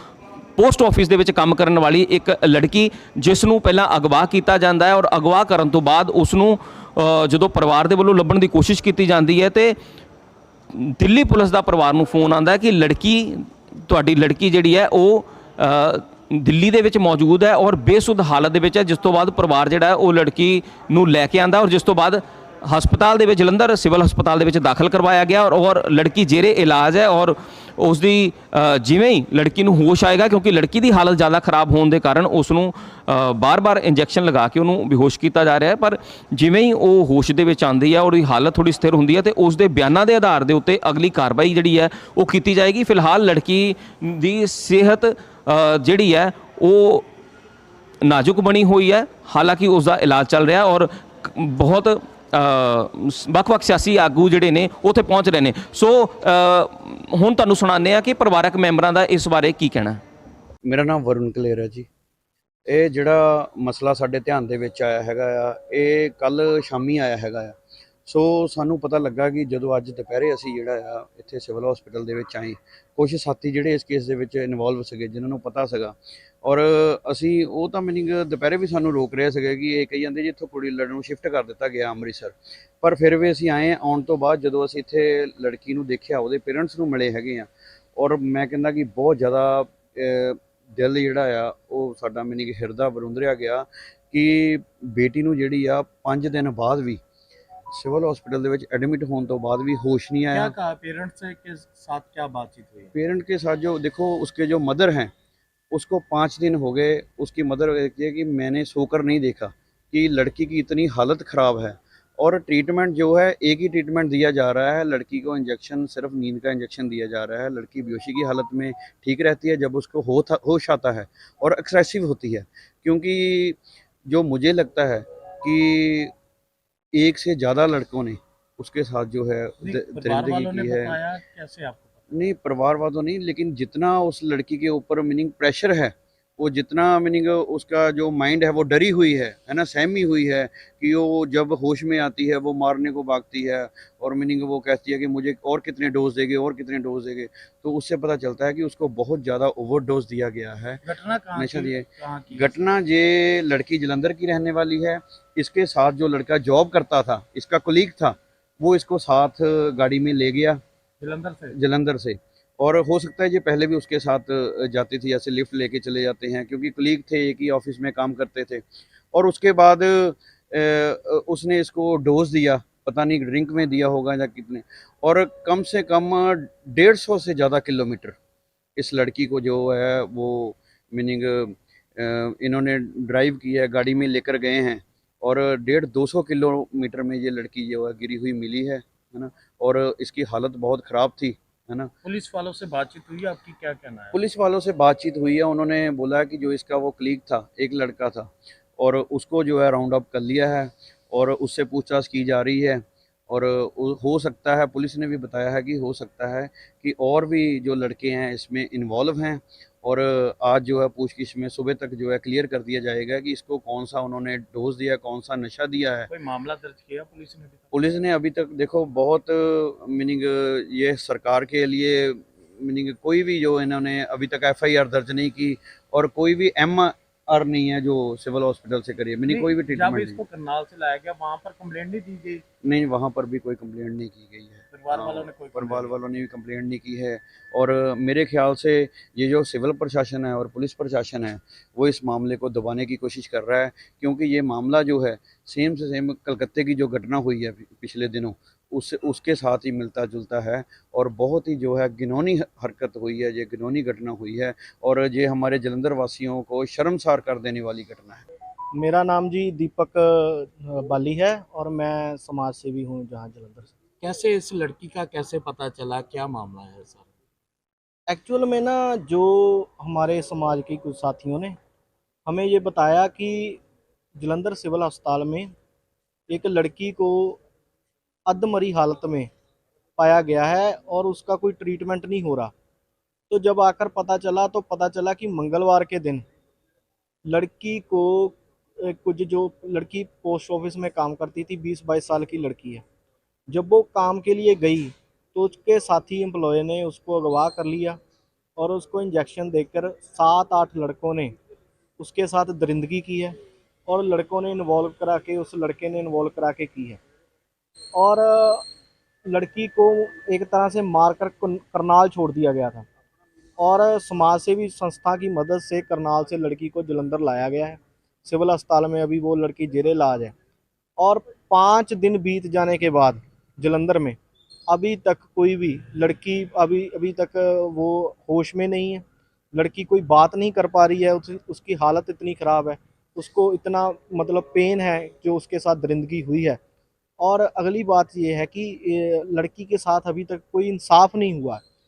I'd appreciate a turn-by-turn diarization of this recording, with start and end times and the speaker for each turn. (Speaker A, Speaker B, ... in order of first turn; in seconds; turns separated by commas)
Speaker A: 0.6-9.8, Speaker A: 10.7-47.1, Speaker A: 48.0-60.0, Speaker B: 60.6-61.9, Speaker B: 62.7-67.6, Speaker B: 68.1-97.0, Speaker B: 97.7-100.5, Speaker C: 100.3-102.9, Speaker B: 102.9-105.1, Speaker B: 105.7-126.1, Speaker B: 126.9-131.0, Speaker C: 129.6-132.1, Speaker B: 132.1-150.8, Speaker C: 150.8-152.5, Speaker B: 151.4-160.6, Speaker C: 161.0-161.6, Speaker B: 161.5-178.2, Speaker B: 178.8-191.9, Speaker C: 192.0-194.2, Speaker B: 194.1-216.1, Speaker C: 216.1-217.8, Speaker B: 217.7-230.2, Speaker C: 229.3-232.4, Speaker B: 232.6-258.2, Speaker C: 234.7-236.0, Speaker D: 258.8-263.7, Speaker C: 264.0-267.1, Speaker D: 268.1-271.6, Speaker D: 272.3-273.6, Speaker D: 274.2-275.5, Speaker D: 276.3-277.4, Speaker D: 278.3-279.3, Speaker D: 280.0-282.5, Speaker D: 283.3-286.2, Speaker D: 287.3-292.8, Speaker D: 293.5-298.0, Speaker D: 298.6-301.3, Speaker D: 302.0-303.4, Speaker D: 303.9-307.0, Speaker D: 307.9-308.6, Speaker D: 309.3-312.9, Speaker D: 313.6-320.3, Speaker D: 321.0-324.2, Speaker D: 324.7-336.6, Speaker D: 337.2-341.6